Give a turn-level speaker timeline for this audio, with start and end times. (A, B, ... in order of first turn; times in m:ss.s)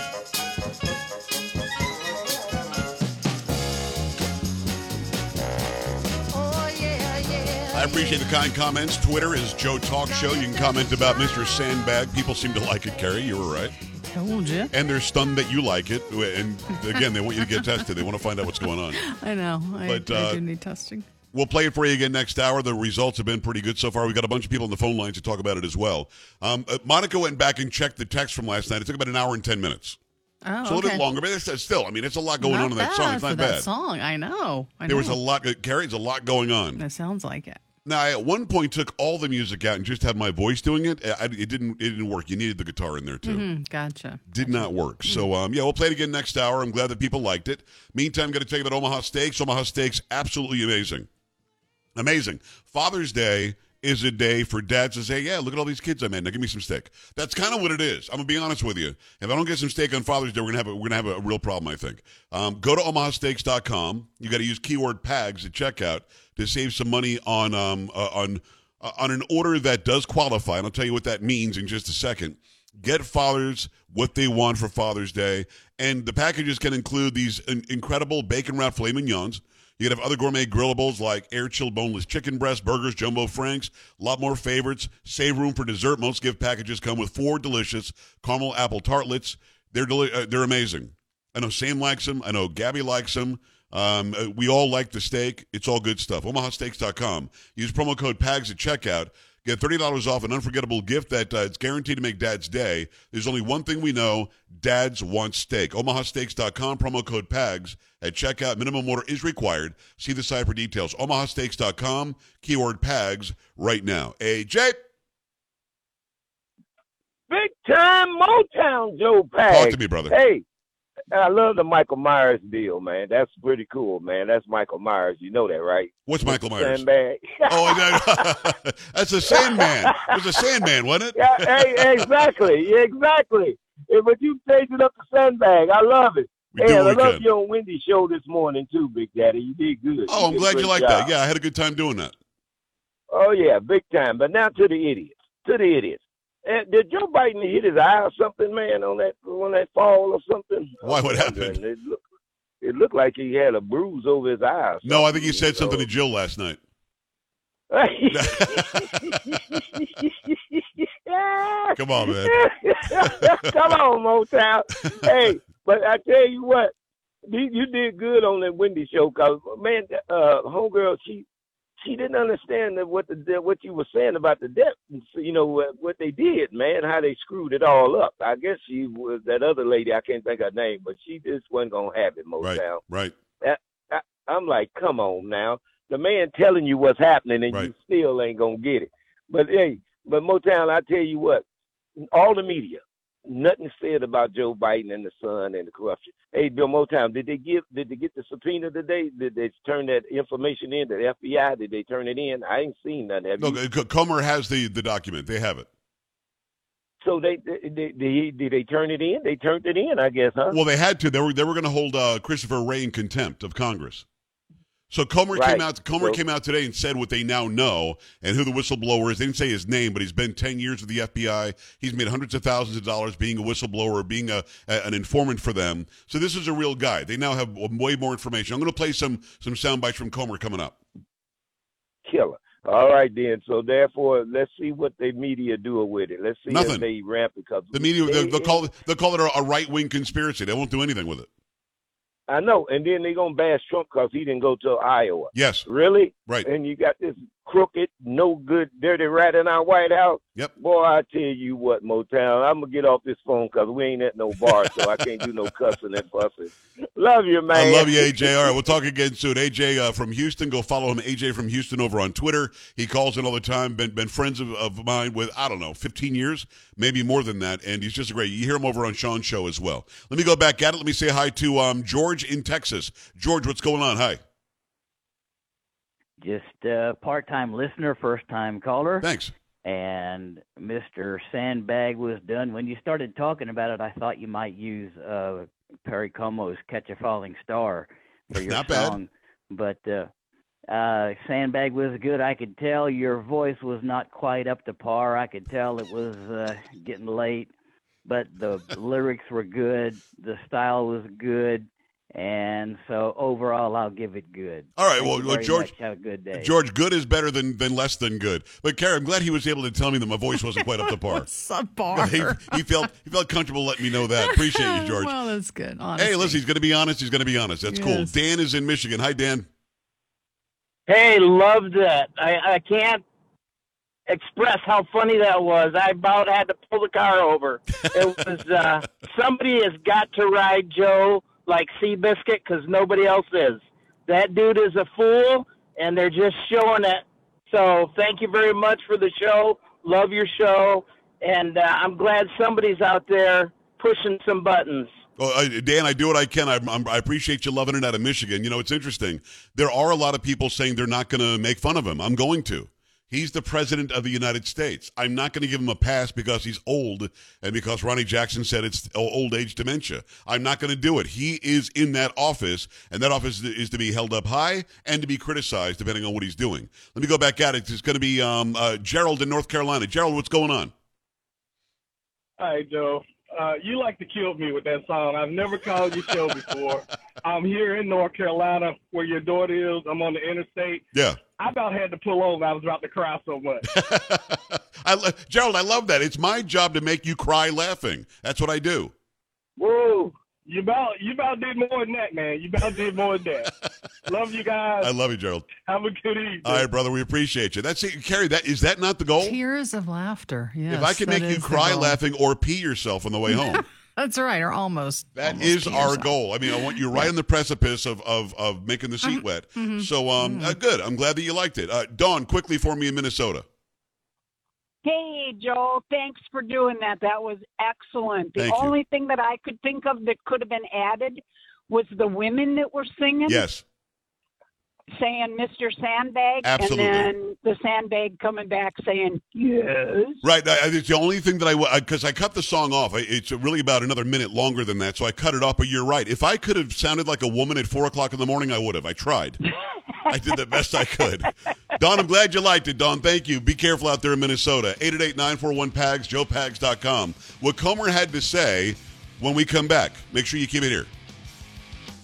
0:07.7-0:13.8 A
0:14.1-0:14.7 B
0:14.7-0:19.0 A
0:18.9-0:21.1 B
0:19.8-0:20.4 A
0:21.3-0:30.0 A
0:30.4-0:31.1 B
0:30.6-0:33.7 A
0:32.4-0:35.2 B
0:34.9-0:36.8 A
0:36.8-0:37.6 B
0:37.8-0:43.5 A
0:43.2-0:45.3 B
0:44.3-0:51.1 A
0:52.0-1:54.8 A
1:57.3-2:00.4 C
1:59.5-2:00.1 A
2:01.1-2:08.2 C
2:06.1-2:06.8 A
2:07.5-2:12.2 A
2:09.3-2:10.1 C
2:11.2-2:21.1 C
2:16.5-2:17.2 A
2:20.1-2:22.1 A
2:23.1-2:32.0 C
2:30.8-2:31.6 A
2:32.6-2:35.9 C
2:34.8-2:36.6 A
2:37.7-2:46.7 C
2:38.1-2:39.0 A
2:41.8-2:42.4 A
2:47.3-2:51.2 C
2:51.8-3:02.8 C
3:02.4-3:03.2 A
3:03.4-3:11.4 C
3:12.0-3:23.6 C
3:23.4-3:25.7 A
3:27.0-3:30.6 C
3:30.5-3:34.0 A
3:34.9-3:50.8 A
3:35.3-3:36.2 C
3:52.1-3:58.6 C
3:56.5-3:56.9 A
3:57.7-4:01.3 A
4:02.3-4:18.5 C
4:05.3-4:05.7 A
4:17.5-4:34.2 A
4:36.2-4:39.1 D
4:39.0-4:39.3 A
4:39.6-4:50.1 D
4:48.3-4:49.0 A
4:50.7-4:57.5 D
4:58.0-5:06.5 D
5:04.8-5:05.7 A
5:06.4-5:11.3 A
5:10.5-5:12.7 B
5:11.9-5:15.2 A
5:14.1-5:16.4 B
5:16.0-5:19.5 A
5:17.7-5:18.1 B
5:20.9-5:23.0 E
5:24.1-5:44.9 E
5:45.2-6:10.7 A
6:12.4-6:20.8 F
6:20.9-6:21.2 A
6:21.4-6:23.6 F
6:23.7-6:28.9 A
6:29.6-6:30.1 C
6:30.5-6:33.5 F
6:34.1-6:34.9 F
6:34.8-6:35.5 A
6:35.6-6:36.6 F
6:36.4-6:39.4 A
6:39.2-6:42.0 B
6:40.7-6:43.6 A
6:43.3-6:47.1 B
6:45.2-6:53.4 A
6:49.0-6:50.6 B
6:54.8-7:03.4 G
6:58.4-6:58.8 A
7:03.3-7:03.6 A
7:04.9-7:09.4 G
7:06.4-7:07.1 A
7:10.2-7:19.4 A
7:20.1-7:30.9 A